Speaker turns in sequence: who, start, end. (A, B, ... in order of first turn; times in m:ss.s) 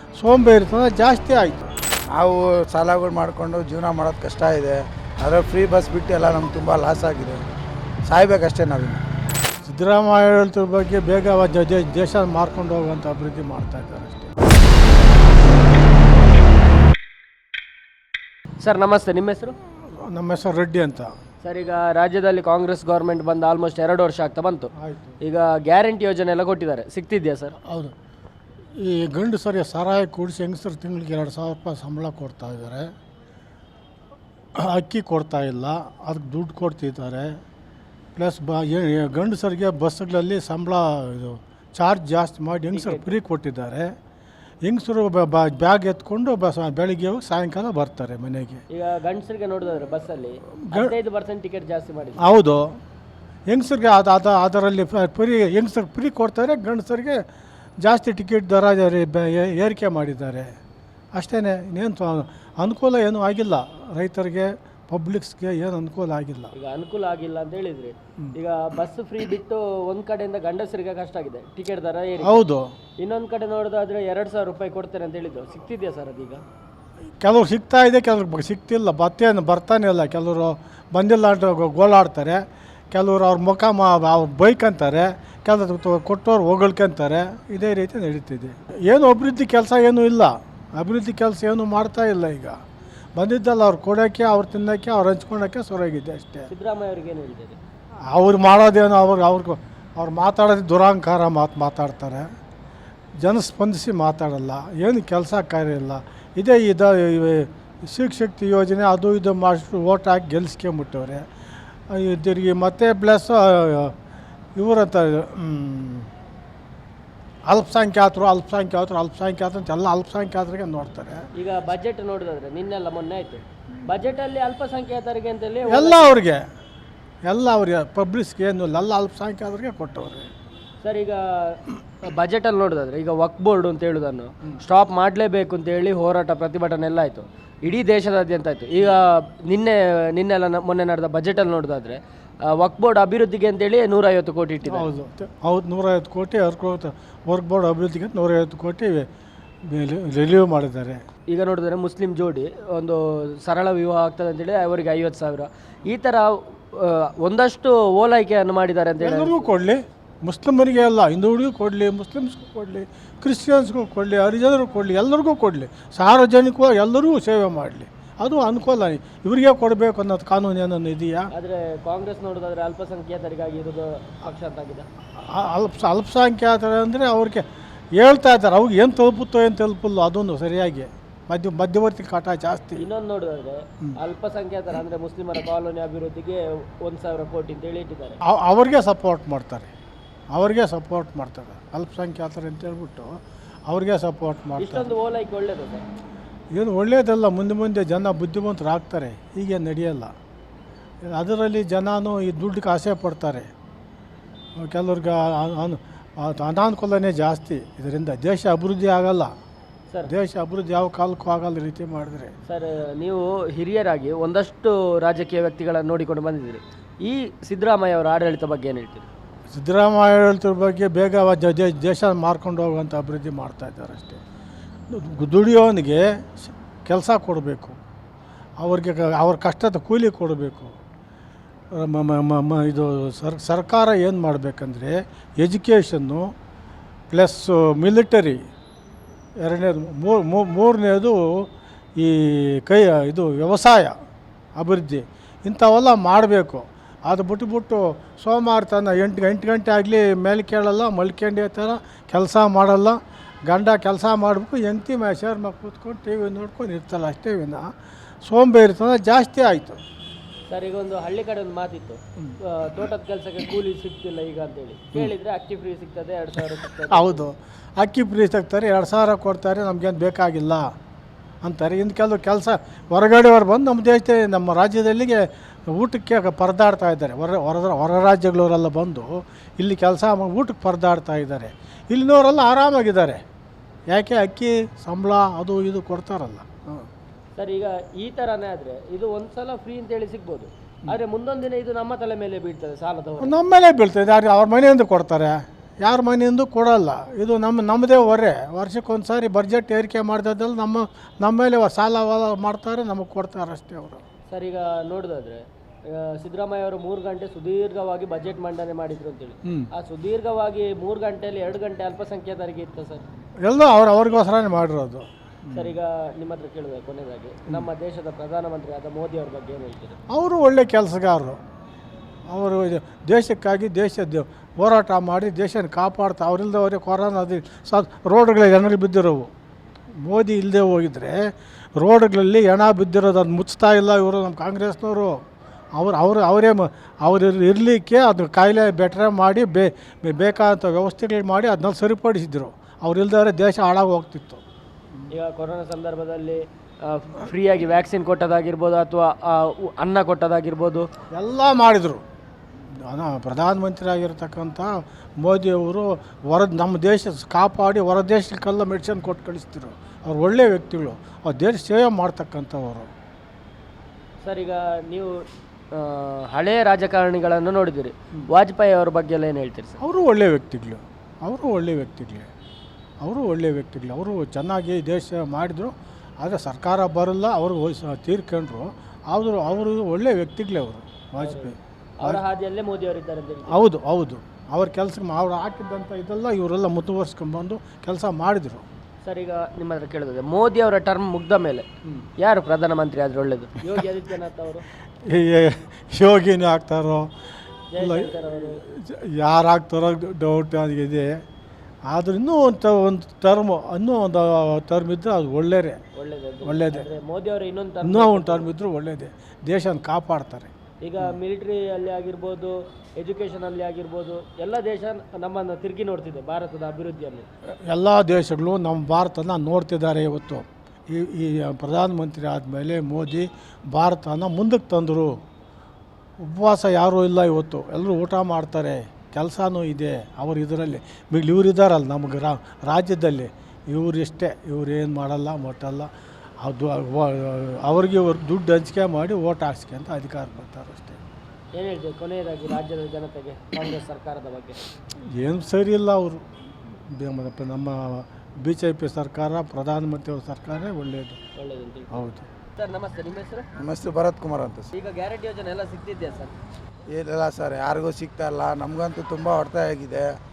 0:00.2-0:01.7 A
0:02.1-0:07.4 B
0:08.0-0:09.0 B
0:09.6-0:14.4 A
0:18.6-0:19.6 C
0:20.0-0:21.1 A
0:21.4-0:27.5 C
0:24.8-0:25.2 A
0:27.6-0:27.9 A
0:28.7-0:32.9 A
0:34.6-0:37.4 A
0:38.2-0:43.9 A
0:42.7-0:43.1 C
0:44.6-0:48.6 A
0:48.7-0:52.4 C
0:50.6-0:50.9 A
0:52.2-0:52.7 A
0:53.5-0:57.2 A
0:57.8-1:00.5 A
1:01.1-1:06.5 A
1:06.5-1:12.4 C
1:12.2-1:12.7 A
1:13.0-1:16.4 C
1:17.2-1:32.6 A
1:33.2-1:36.5 A
1:36.5-1:37.6 C
1:38.1-1:42.3 A
1:43.2-1:51.2 A
1:51.9-1:53.9 A
1:54.6-1:56.1 A
1:57.5-2:01.3 A
2:01.4-2:06.2 C
2:05.7-2:06.5 A
2:07.2-2:10.3 A
2:10.8-2:22.0 C
2:22.5-2:24.9 C
2:24.7-2:29.1 A
2:29.6-2:31.0 A
2:31.3-2:39.5 C
2:39.0-2:51.3 A
2:51.3-2:54.9 C
2:55.2-3:02.8 A
3:02.8-3:08.2 C
3:08.2-3:09.7 A
3:10.3-3:13.1 A
3:13.7-3:14.9 A
3:14.6-3:15.8 C
3:16.5-3:20.1 A
3:21.1-3:23.5 A
3:24.6-3:29.3 A
3:30.0-3:32.3 A
3:32.5-3:39.1 C
3:39.5-3:44.2 A
3:44.9-3:47.8 A
3:48.6-3:50.7 A
3:51.7-3:56.3 A
3:57.1-3:58.4 A
3:59.4-4:01.4 A
4:02.0-4:03.9 A
4:04.6-4:17.7 A
4:18.2-4:19.8 A
4:20.5-4:27.3 C
4:26.9-4:30.7 A
4:31.4-4:43.2 A
4:43.9-4:46.9 A
4:47.4-4:53.3 C
4:53.2-5:04.0 A
5:04.3-5:13.0 C
5:09.4-5:09.7 A
5:13.4-5:15.8 A
5:15.5-5:20.0 C
5:20.1-5:21.4 A
5:22.3-5:29.3 A
5:30.0-5:35.2 A
5:35.8-5:44.4 A
5:45.1-5:50.9 C
5:51.1-5:52.0 A
5:52.8-6:02.9 A
6:04.2-6:05.1 C
6:05.7-6:09.8 C
6:09.8-6:12.3 A
6:13.0-6:22.2 A
6:21.2-6:23.6 C
6:23.5-6:28.6 A
6:29.0-6:31.6 C
6:32.2-6:34.6 C
6:35.0-6:37.1 A
6:37.7-6:38.6 C
6:37.8-6:41.2 A
6:41.9-6:45.8 A
6:45.9-6:48.5 C
6:46.4-6:46.9 A
6:47.8-6:50.5 A
6:50.8-6:57.3 C
6:57.6-7:05.2 A
7:06.2-7:15.9 A
7:16.4-7:21.0 A
7:21.5-7:24.6 C
7:25.1-7:31.2 A
7:31.4-7:31.9 C
7:31.9-7:32.3 A
7:32.6-7:33.5 C
7:33.6-7:34.7 B
7:34.7-7:36.3 C
7:36.9-7:40.1 B